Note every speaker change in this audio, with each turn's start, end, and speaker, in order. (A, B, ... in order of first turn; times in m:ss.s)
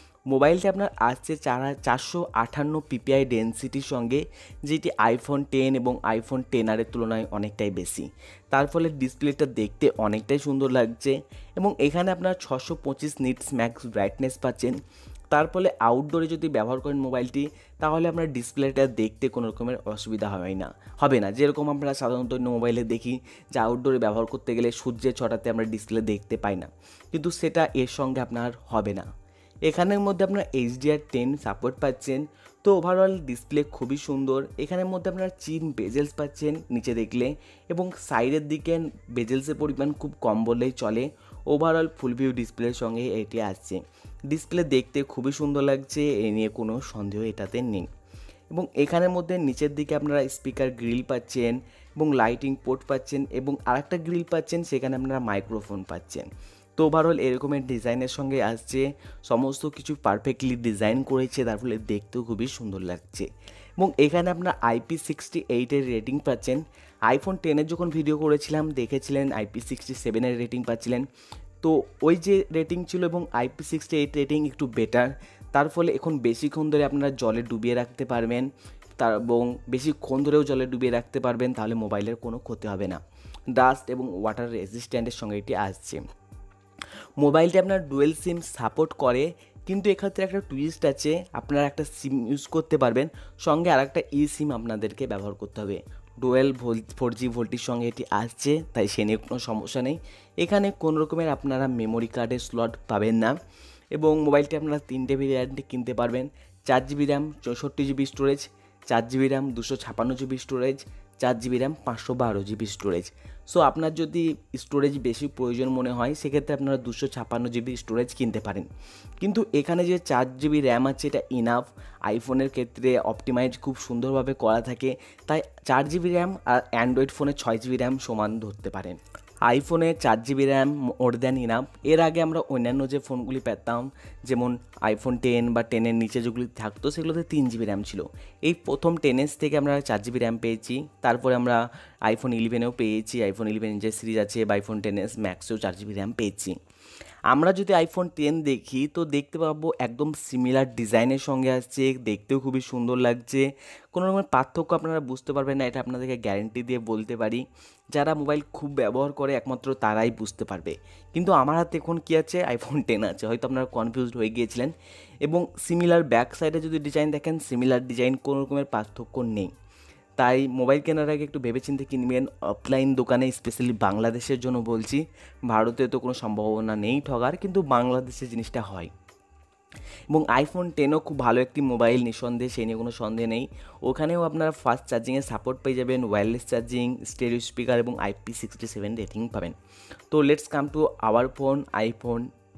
0:00.3-0:14.8 A
0:15.3-0:29.1 A
0:29.7-0:47.9 A
0:48.5-1:03.3 A
1:03.8-1:11.1 A
1:11.6-1:23.0 A
1:23.5-1:26.0 A
1:27.2-1:43.3 A
1:44.0-1:58.7 A
1:59.2-2:26.6 A
2:27.3-2:44.7 A
2:45.2-2:49.5 A
2:50.2-2:58.9 A
3:00.1-3:09.5 A
3:10.1-3:12.3 A